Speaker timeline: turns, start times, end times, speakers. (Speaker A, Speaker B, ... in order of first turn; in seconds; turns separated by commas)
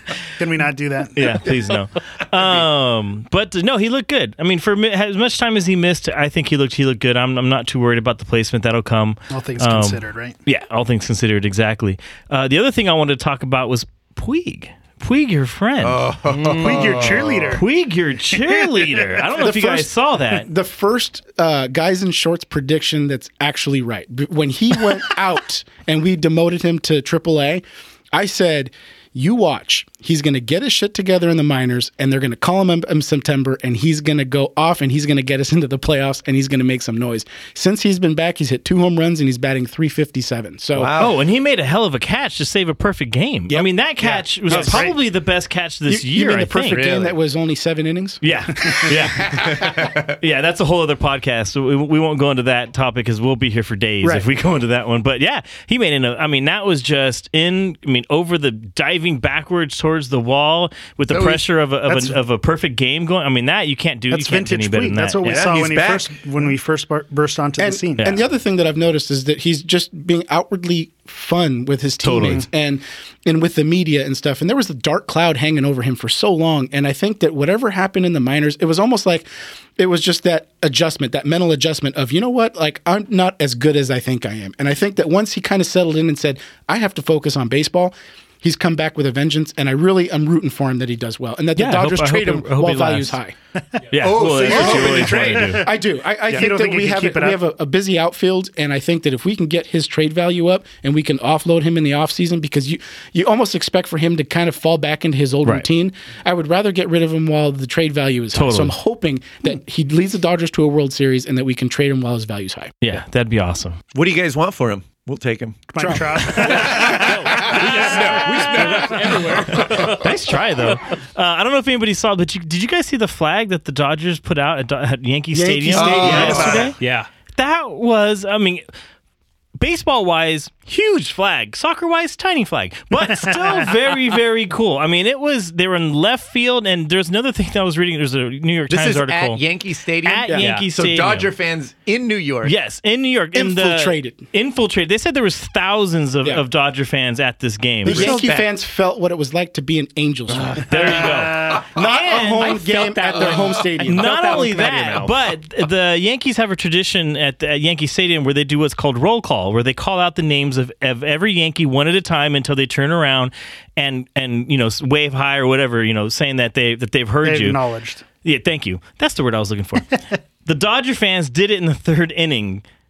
Speaker A: 0.4-1.4, Speaker B: 1.1-16.0, Speaker A: 9.3-10.3, Speaker C: 15.8-17.6, Speaker D: 16.3-17.0, Speaker A: 16.5-17.6, Speaker B: 17.5-20.5, Speaker E: 19.4-40.9, Speaker C: 40.7-41.2, Speaker B: 41.0-47.0, Speaker E: 43.5-45.0, Speaker A: 44.5-44.9, Speaker E: 45.9-49.3, Speaker C: 46.8-47.1, Speaker B: 48.2-65.4, Speaker C: 49.2-50.1, Speaker C: 61.1-61.4, Speaker A: 64.1-68.1, Speaker C: 65.2-66.1, Speaker E: 67.6-93.3, Speaker B: 72.0-72.4, Speaker B: 91.5-93.2, Speaker B: 93.9-95.7, Speaker C: 94.0-95.7, Speaker A: 94.5-95.3, Speaker E: 94.5-112.7, Speaker A: 96.3-97.4, Speaker B: 108.3-108.7, Speaker B: 112.8-113.8, Speaker C: 113.9-115.7, Speaker A: 115.7-117.4, Speaker E: 115.8-117.4, Speaker C: 116.4-119.9, Speaker D: 117.0-120.4, Speaker B: 119.6-126.8, Speaker E: 125.3-126.7, Speaker C: 125.7-126.7, Speaker D: 126.1-127.1, Speaker B: 127.3-128.6, Speaker B: 129.6-139.4, Speaker A: 133.1-133.7, Speaker C: 138.7-142.5, Speaker B: 140.0-141.3, Speaker D: 140.4-140.7, Speaker B: 142.4-148.2, Speaker E: 143.3-144.3, Speaker E: 147.8-154.6, Speaker C: 147.9-148.5, Speaker B: 150.7-152.6, Speaker D: 152.4-155.2, Speaker B: 153.8-167.6, Speaker A: 167.2-168.0, Speaker B: 168.2-172.6